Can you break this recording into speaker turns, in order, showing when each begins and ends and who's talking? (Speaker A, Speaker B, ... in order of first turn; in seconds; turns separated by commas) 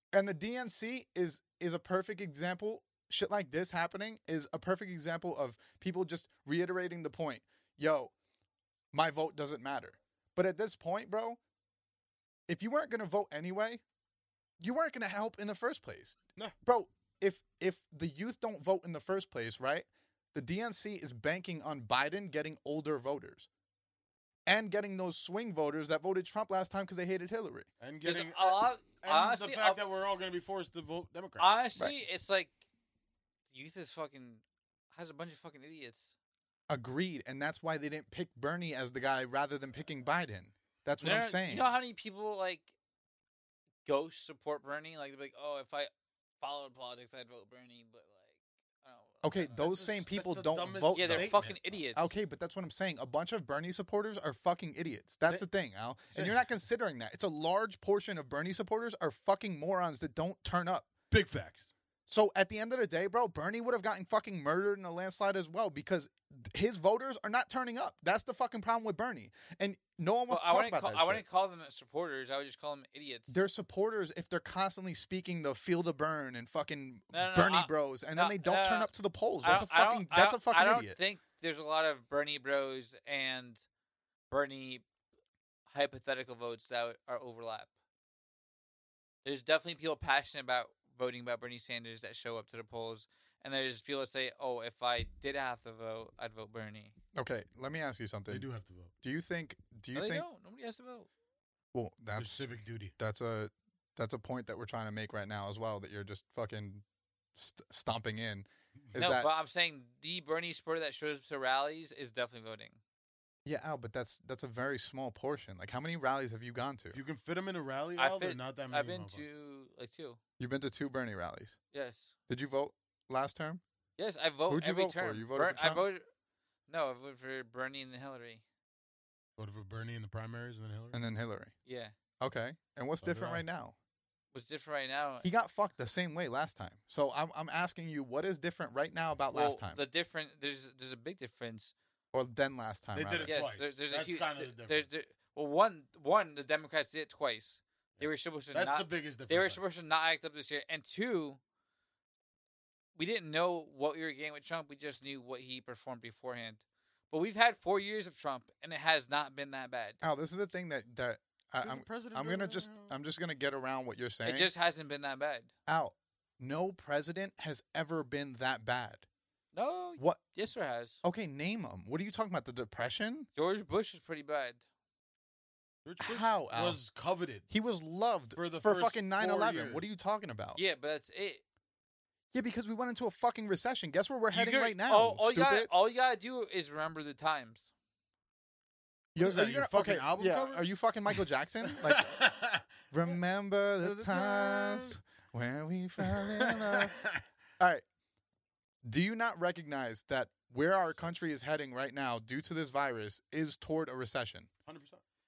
Speaker A: 0.1-8.1, Speaker A: 8.9-11.4, Speaker A: 12.5-13.8, Speaker A: 14.6-23.5, Speaker A: 24.5-27.7, Speaker B: 27.8-31.5, Speaker C: 28.0-29.8, Speaker C: 31.4-32.6, Speaker C: 33.5-36.1, Speaker A: 36.7-41.7, Speaker C: 41.0-42.7, Speaker C: 43.9-48.3, Speaker C: 48.8-49.5, Speaker A: 49.2-51.4, Speaker B: 49.5-51.6, Speaker C: 50.9-52.1, Speaker A: 52.0-60.9, Speaker B: 56.1-56.4, Speaker B: 61.1-61.7, Speaker A: 62.1-71.2, Speaker C: 70.3-73.4, Speaker A: 73.3-81.0, Speaker C: 77.1-78.9, Speaker C: 79.4-83.6, Speaker C: 84.3-84.8, Speaker C: 85.7-87.7, Speaker C: 89.2-97.0, Speaker A: 97.2-98.5, Speaker B: 98.3-98.9, Speaker A: 99.0-100.2, Speaker C: 99.9-101.1, Speaker A: 101.7-102.4, Speaker B: 102.2-102.9, Speaker A: 103.0-106.8, Speaker A: 107.4-109.3, Speaker C: 109.0-112.8, Speaker A: 113.5-117.0, Speaker B: 116.9-119.2, Speaker C: 118.0-120.2, Speaker A: 120.4-121.6, Speaker C: 121.7-122.1, Speaker A: 122.3-123.6, Speaker C: 124.0-126.0, Speaker A: 124.5-125.8, Speaker C: 126.7-128.4, Speaker B: 129.4-131.0, Speaker A: 130.9-131.5, Speaker C: 131.7-131.9, Speaker A: 132.2-133.8, Speaker B: 133.0-133.4, Speaker C: 134.3-135.3, Speaker A: 135.2-139.8, Speaker C: 139.3-141.7, Speaker A: 142.1-143.3, Speaker B: 142.9-144.9, Speaker C: 143.3-151.4, Speaker B: 148.0-149.6, Speaker C: 153.0-160.0, Speaker A: 160.0-164.5, Speaker B: 161.6-162.9, Speaker C: 164.2-165.5, Speaker A: 165.7-169.1, Speaker C: 169.5-171.0, Speaker A: 171.0-173.3, Speaker C: 173.3-174.6, Speaker B: 175.8-177.5, Speaker A: 176.0-176.8, Speaker A: 177.5-180.6, Speaker B: 178.3-179.8, Speaker C: 180.6-181.4, Speaker A: 182.3-185.7, Speaker C: 184.3-187.7, Speaker A: 189.2-192.1, Speaker B: 189.2-192.7, Speaker A: 192.9-197.0, Speaker B: 193.8-195.0, Speaker B: 196.0-197.2, Speaker A: 197.6-197.8, Speaker A: 198.8-204.5, Speaker B: 204.7-205.0